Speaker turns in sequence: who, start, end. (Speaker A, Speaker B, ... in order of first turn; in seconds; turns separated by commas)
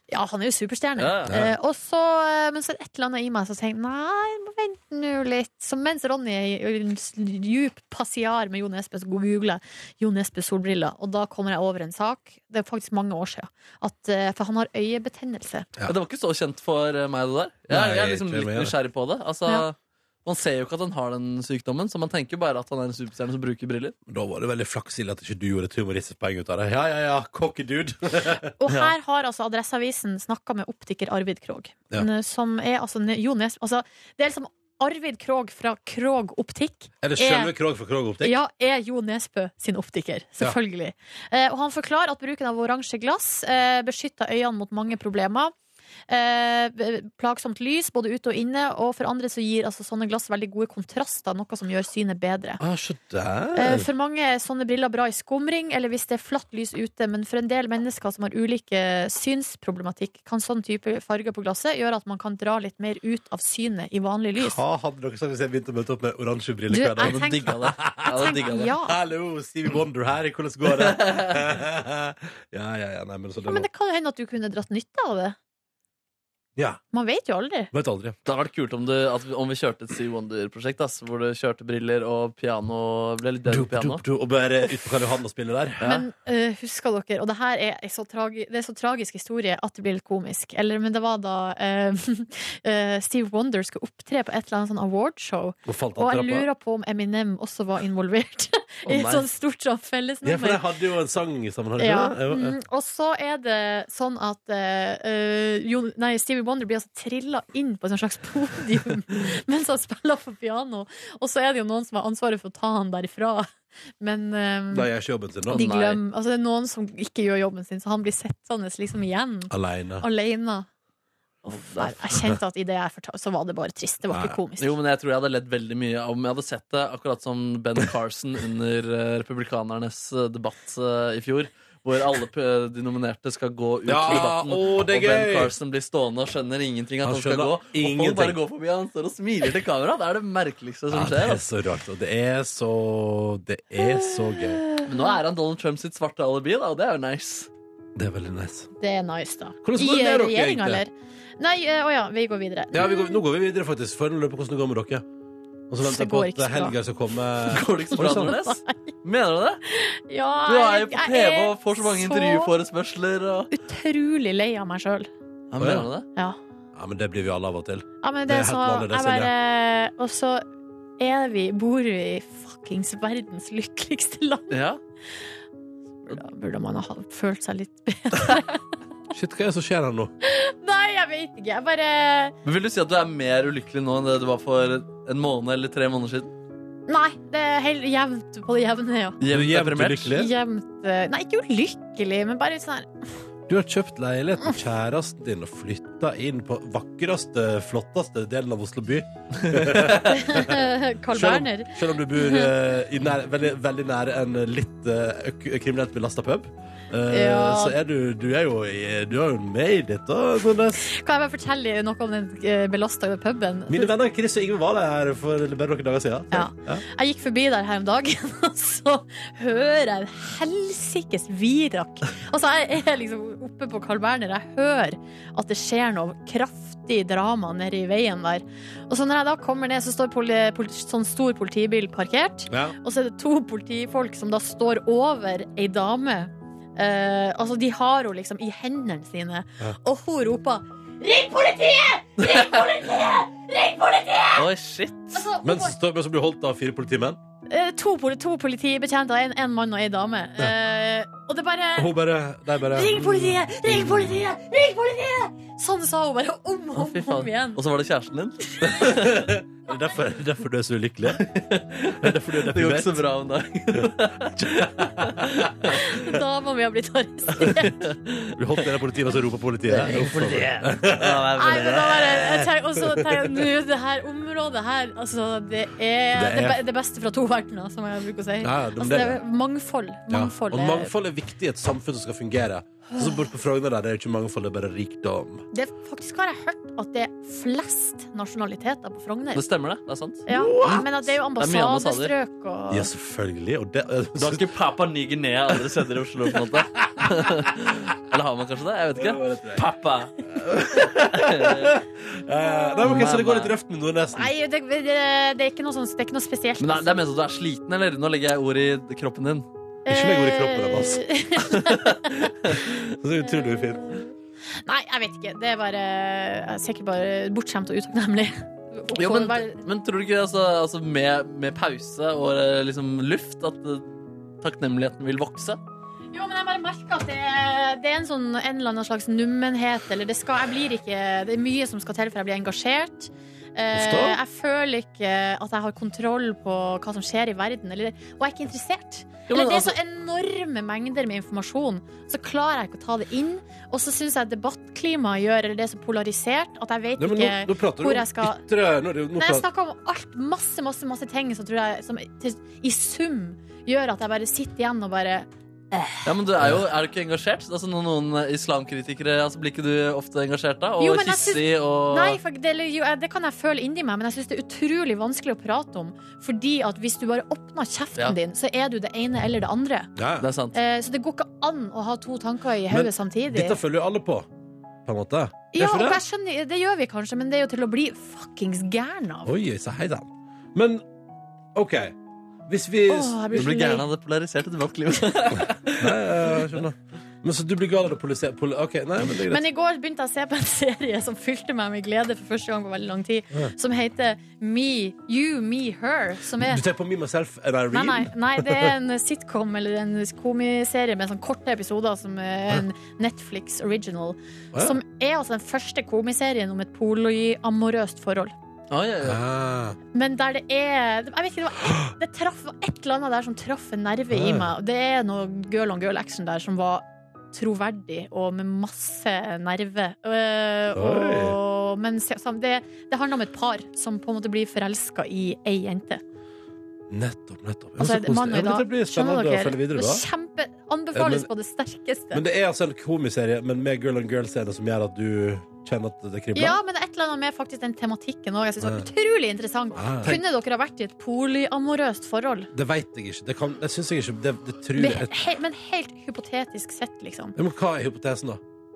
Speaker A: 0.1-15.7, Speaker B: 1.0-1.4, Speaker C: 1.3-1.6, Speaker B: 15.9-23.9, Speaker C: 17.7-18.8, Speaker C: 24.1-28.5, Speaker A: 28.6-37.5, Speaker C: 37.0-38.4, Speaker A: 38.2-45.5, Speaker A: 46.1-52.6, Speaker C: 52.6-53.9, Speaker A: 53.5-64.6, Speaker C: 64.4-73.7, Speaker A: 66.7-69.0, Speaker B: 67.0-68.7, Speaker B: 70.7-71.4, Speaker A: 73.5-75.4, Speaker C: 76.6-76.8, Speaker A: 76.9-77.7, Speaker C: 77.7-78.2, Speaker B: 78.3-84.0, Speaker C: 83.5-85.8, Speaker A: 85.8-100.7, Speaker C: 95.7-96.5, Speaker B: 98.9-99.3, Speaker C: 100.2-102.6, Speaker A: 101.8-113.5, Speaker A: 114.0-114.9, Speaker C: 114.7-115.7, Speaker A: 115.5-120.7, Speaker B: 115.5-116.0, Speaker C: 119.5-120.0, Speaker B: 121.5-122.0, Speaker A: 121.6-124.7, Speaker C: 124.1-124.4, Speaker B: 124.6-141.4, Speaker C: 133.9-135.5, Speaker C: 137.0-138.4, Speaker C: 140.9-144.6, Speaker A: 144.6-144.9, Speaker B: 144.8-147.5, Speaker C: 148.0-148.7, Speaker A: 148.8-153.2, Speaker C: 149.6-150.8, Speaker C: 152.7-155.1, Speaker C: 155.7-158.3, Speaker A: 155.8-156.8, Speaker B: 157.5-159.6, Speaker A: 158.0-158.9, Speaker A: 159.7-162.5, Speaker B: 160.5-163.5, Speaker A: 163.5-165.1, Speaker B: 165.5-166.1, Speaker C: 165.6-165.9, Speaker C: 166.8-169.3, Speaker A: 168.0-170.4, Speaker A: 171.0-174.6, Speaker B: 174.5-174.8, Speaker A: 176.1-178.7, Speaker C: 179.1-180.1, Speaker A: 180.2-182.4, Speaker B: 182.4-186.3, Speaker A: 186.9-189.2, Speaker B: 189.2-190.2, Speaker C: 189.3-190.3, Speaker A: 190.1-192.9, Speaker C: 193.5-210.9, Speaker B: 199.4-200.1, Speaker A: 200.1-202.5, Speaker A: 207.1-207.8, Speaker A: 210.8-213.9, Speaker C: 213.7-216.8, Speaker A: 216.3-244.5, Speaker C: 232.5-232.8, Speaker B: 242.2-242.6, Speaker B: 244.3-245.2, Speaker A: 245.1-245.8, Speaker C: 245.4-247.2, Speaker A: 247.5-251.9, Speaker C: 251.8-253.4, Speaker A: 252.7-257.6, Speaker B: 256.8-259.2, Speaker C: 258.6-261.2, Speaker B: 261.2-265.8, Speaker C: 262.0-263.0, Speaker C: 263.7-265.8, Speaker A: 265.6-267.9, Speaker B: 267.4-268.4, Speaker C: 268.4-271.3, Speaker B: 269.7-272.4, Speaker A: 271.4-280.9, Speaker C: 272.8-273.3, Speaker C: 276.1-276.6, Speaker C: 278.4-279.2, Speaker C: 280.1-285.4, Speaker A: 282.9-283.2, Speaker A: 285.5-289.4, Speaker B: 289.4-292.1, Speaker A: 290.3-292.9, Speaker C: 290.3-290.9, Speaker C: 292.7-294.5, Speaker B: 294.2-301.8, Speaker C: 297.0-297.3, Speaker C: 298.9-299.7, Speaker C: 300.3-304.3, Speaker B: 302.8-303.5, Speaker A: 304.1-306.9, Speaker B: 306.6-309.5, Speaker A: 309.9-312.3, Speaker C: 309.9-311.1, Speaker B: 311.5-312.7, Speaker C: 312.4-314.0, Speaker A: 314.6-319.6, Speaker B: 319.0-325.6, Speaker A: 326.1-348.4, Speaker C: 333.7-334.2, Speaker B: 339.3-339.8, Speaker C: 347.0-349.5, Speaker A: 349.2-356.1, Speaker B: 356.1-362.2, Speaker C: 356.4-356.6, Speaker A: 360.8-369.9, Speaker C: 370.0-370.3, Speaker B: 370.2-370.6, Speaker A: 370.5-373.6, Speaker C: 372.7-374.3, Speaker C: 374.9-376.0, Speaker A: 375.5-379.4, Speaker C: 379.3-380.8, Speaker C: 381.6-381.9, Speaker C: 382.5-383.5, Speaker A: 382.9-383.8, Speaker B: 383.3-386.0, Speaker C: 385.8-389.4, Speaker A: 389.3-396.6, Speaker C: 396.4-398.7, Speaker A: 397.7-408.3, Speaker C: 404.5-404.8, Speaker B: 408.7-409.2, Speaker C: 409.0-409.8, Speaker A: 409.9-426.0, Speaker C: 414.1-414.5, Speaker C: 420.7-421.4, Speaker C: 426.9-430.1, Speaker A: 427.8-432.2, Speaker C: 430.9-431.3, Speaker C: 432.1-436.6, Speaker A: 436.4-442.5, Speaker C: 438.6-438.9, Speaker C: 439.8-440.2, Speaker C: 442.5-445.2, Speaker A: 444.8-447.4, Speaker C: 447.4-448.4